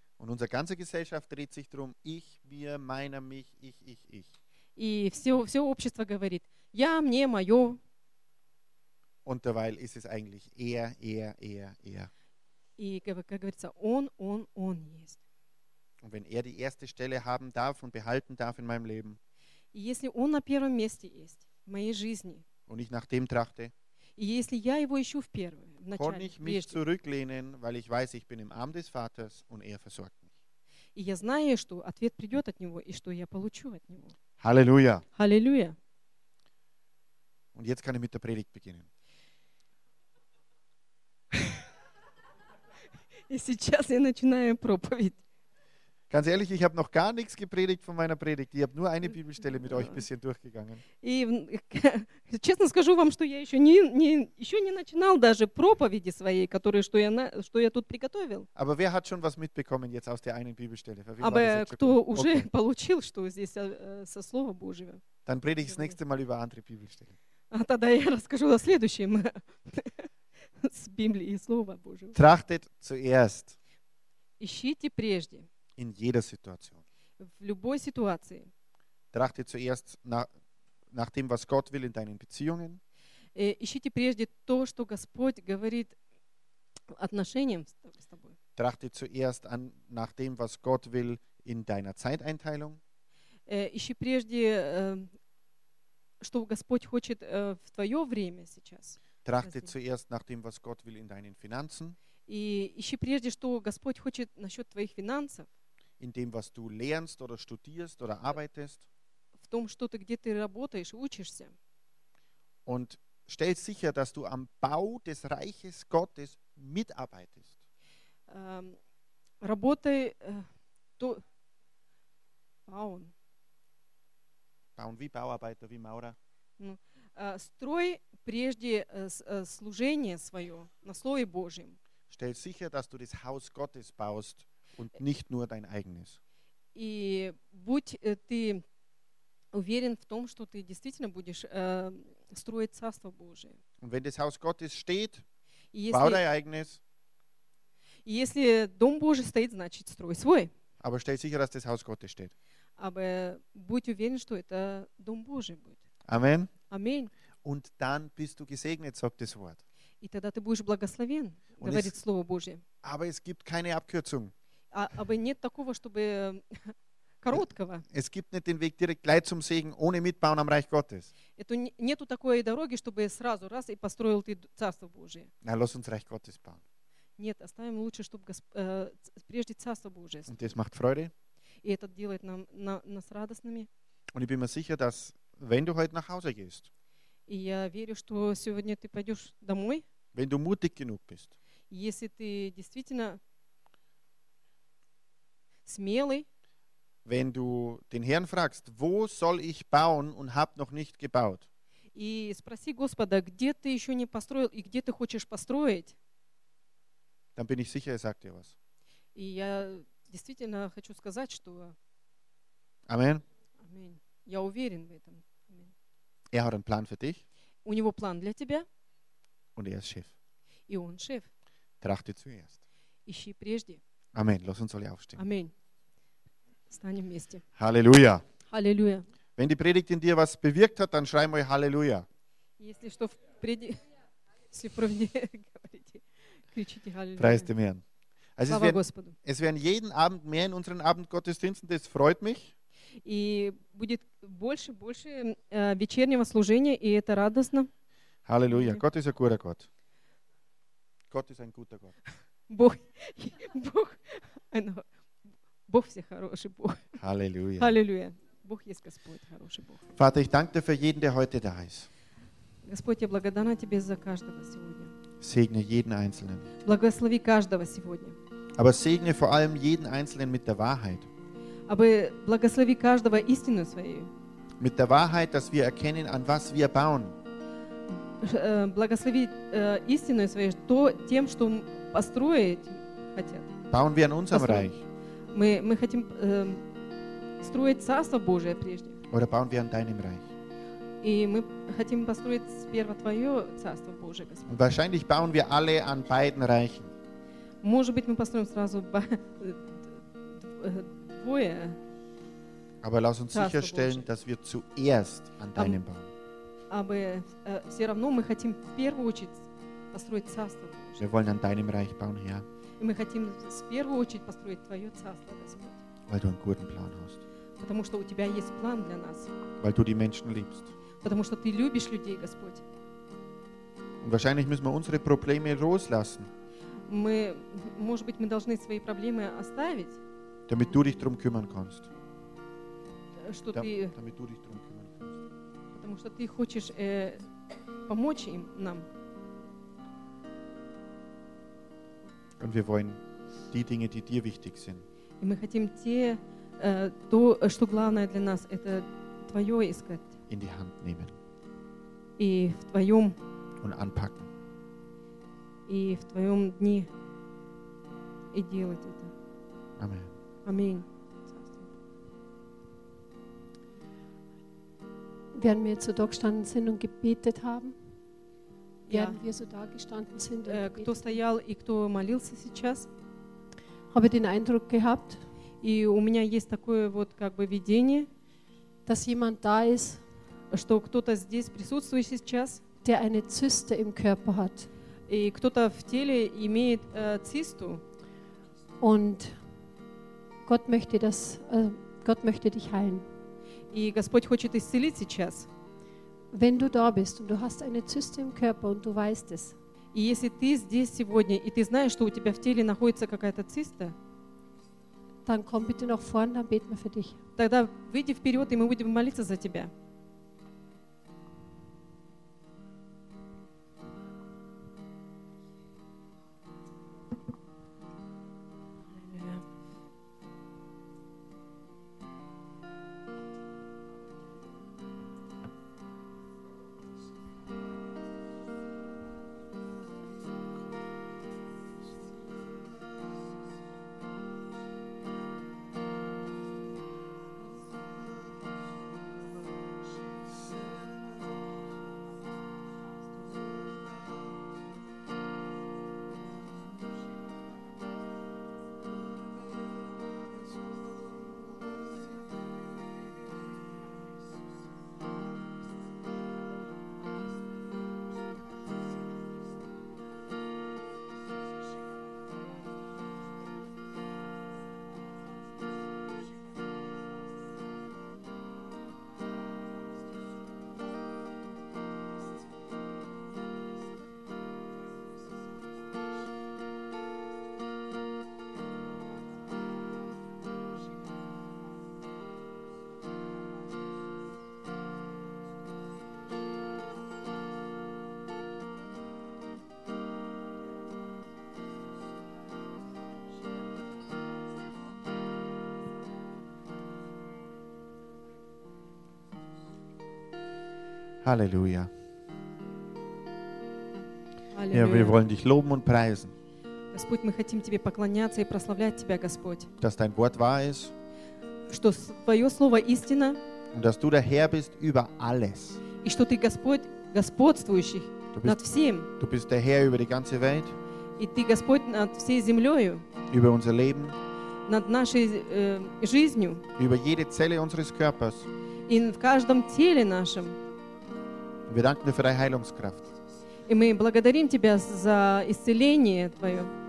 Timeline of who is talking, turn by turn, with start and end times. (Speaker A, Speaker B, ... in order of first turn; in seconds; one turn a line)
Speaker A: 0.2-4.3
Speaker B: 4.8-7.8
Speaker A: 9.2-12.1
Speaker B: 12.8-15.2
Speaker A: 16.0-19.2
Speaker B: 19.7-22.4
Speaker A: 22.7-23.7
Speaker B: 24.2-26.8
Speaker A: 25.9-30.3
Speaker B: 30.9-34.1
Speaker A: 34.4-35.0
Speaker B: 35.1-35.8
Speaker A: 37.5-38.9
Speaker B: 41.3-41.6
Speaker B: 43.3-45.2
Speaker A: 46.1-50.8
Speaker B: 49.4-50.0
Speaker B: 51.0-58.5
Speaker A: 58.5-62.5
Speaker B: 61.2-65.0
Speaker A: 65.2-67.2
Speaker B: 65.6-66.0
Speaker B: 67.5-72.2
Speaker A: 72.1-73.6
Speaker B: 74.4-75.5
Speaker A: 75.8-76.8
Speaker B: 77.2-78.5
Speaker A: 79.1-80.3
Speaker A: 80.9-82.8
Speaker B: 83.3-86.0
Speaker B: 86.9-88.3
Speaker A: 88.5-92.8
Speaker B: 93.5-95.1
Speaker B: 96.2-99.7
Speaker A: 99.2-102.0
Speaker B: 102.3-105.5
Speaker A: 106.0-108.8
Speaker B: 109.4-111.5
Speaker A: 112.7-117.5
Speaker B: 118.3-118.8
Speaker B: 119.4-121.2
Speaker B: 122.7-123.1
Speaker A: 124.8-126.2
Speaker B: 126.6-131.8
Speaker A: 132.1-136.2
Speaker B: 136.7-138.6
Speaker B: 139.5-143.6
Speaker A: 143.8-145.2
Speaker B: 145.7-146.2
Speaker A: 145.9-146.8
Speaker B: 148.0-150.5
Speaker A: 150.8-152.3
Speaker B: 152.8-155.8
Speaker A: 156.0-156.5
Speaker B: 156.7-157.1
Speaker A: 157.4-159.6
Speaker B: 160.0-162.6
Speaker A: 161.6-161.9
Speaker A: 162.8-164.3
Speaker B: 164.7-167.8
Speaker A: 167.3-171.1
Speaker B: 171.4-175.3
Speaker A: 175.4-176.6
Speaker B: 177.2-180.3
Speaker A: 180.3-181.1
Speaker B: 181.6-183.7
Speaker A: 184.1-186.7
Speaker B: 187.3-189.8
Speaker A: 190.1-191.3
Speaker B: 191.7-193.2
Speaker B: 195.7-196.2
Speaker A: 197.0-201.4
Speaker B: 201.9-205.9
Speaker A: 207.3-208.5
Speaker B: 209.1-211.8
Speaker A: 212.9-213.2
Speaker B: 213.6-215.7
Speaker A: 216.3-217.2
Speaker B: 217.6-218.7
Speaker A: 219.6-220.1
Speaker B: 220.7-221.3
Speaker A: 221.8-222.6
Speaker B: 223.1-223.8
Speaker A: 224.1-225.2
Speaker B: 225.2-225.5
Speaker B: 226.7-227.4
Speaker A: 227.6-228.2
Speaker B: 228.5-229.1
Speaker A: 229.3-232.1
Speaker B: 232.6-233.8
Speaker B: 234.5-237.5
Speaker A: 237.2-237.8
Speaker A: 238.4-242.5
Speaker B: 238.5-239.2
Speaker B: 243.0-247.7
Speaker A: 248.2-249.7
Speaker B: 248.5-248.8
Speaker A: 251.1-252.0
Speaker B: 252.5-254.8
Speaker B: 255.7-257.0
Speaker A: 257.0-257.8
Speaker B: 257.6-259.8
Speaker A: 259.9-261.9
Speaker B: 262.6-264.9
Speaker A: 265.2-266.5
Speaker B: 266.6-268.2
Speaker A: 268.6-271.1
Speaker B: 271.7-274.1
Speaker A: 274.6-277.1
Speaker B: 277.9-283.6
Speaker A: 283.7-284.7
Speaker B: 284.3-284.8
Speaker B: 285.3-286.6
Speaker B: 287.4-289.0
Speaker A: 289.1-290.3
Speaker B: 291.0-294.5
Speaker A: 294.5-296.9
Speaker B: 297.6-301.8
Speaker A: 302.8-306.1
Speaker B: 303.3-304.1
Speaker B: 306.7-311.0
Speaker A: 311.0-312.4
Speaker B: 312.8-315.8
Speaker A: 316.1-317.2
Speaker B: 317.6-319.3
Speaker A: 319.6-320.7
Speaker B: 321.0-322.6
Speaker A: 324.0-326.3
Speaker B: 326.9-330.0
Speaker A: 330.5-331.9
Speaker B: 333.2-333.9
Speaker A: 333.5-335.1
Speaker B: 335.7-337.2
Speaker B: 337.9-338.9
Speaker A: 342.4-344.8
Speaker B: 345.2-350.1
Speaker A: 350.3-351.1
Speaker B: 352.2-353.2
Speaker A: 353.6-354.3
Speaker B: 355.7-356.9
Speaker B: 358.3-359.1
Speaker A: 359.8-360.1
Speaker B: 360.4-361.7
Speaker C: 365.3-367.8
Speaker B: 368.9-369.2
Speaker C: 368.9-371.2
Speaker B: 370.4-372.9
Speaker C: 373.9-375.2
Speaker B: 375.6-378.1
Speaker C: 378.9-380.0
Speaker B: 380.5-382.6
Speaker C: 382.8-384.7
Speaker B: 385.1-387.8
Speaker C: 388.8-389.3
Speaker C: 390.4-393.0
Speaker B: 393.7-395.5
Speaker C: 396.3-399.5
Speaker B: 399.9-403.9
Speaker C: 405.2-407.2
Speaker B: 407.4-409.7
Speaker B: 418.9-419.4
Speaker A: 501.2-501.9
Speaker B: 504.5-505.2
Speaker A: 504.7-506.3
Speaker B: 506.9-509.7
Speaker A: 509.8-510.9
Speaker B: 511.7-513.4
Speaker A: 513.7-515.8
Speaker B: 516.0-519.1
Speaker A: 518.3-518.6
Speaker A: 519.2-520.7
Speaker B: 521.2-523.0
Speaker A: 523.3-524.2
Speaker B: 524.6-526.6
Speaker A: 526.8-528.5
Speaker B: 528.9-530.6
Speaker A: 531.7-533.1
Speaker B: 533.6-536.7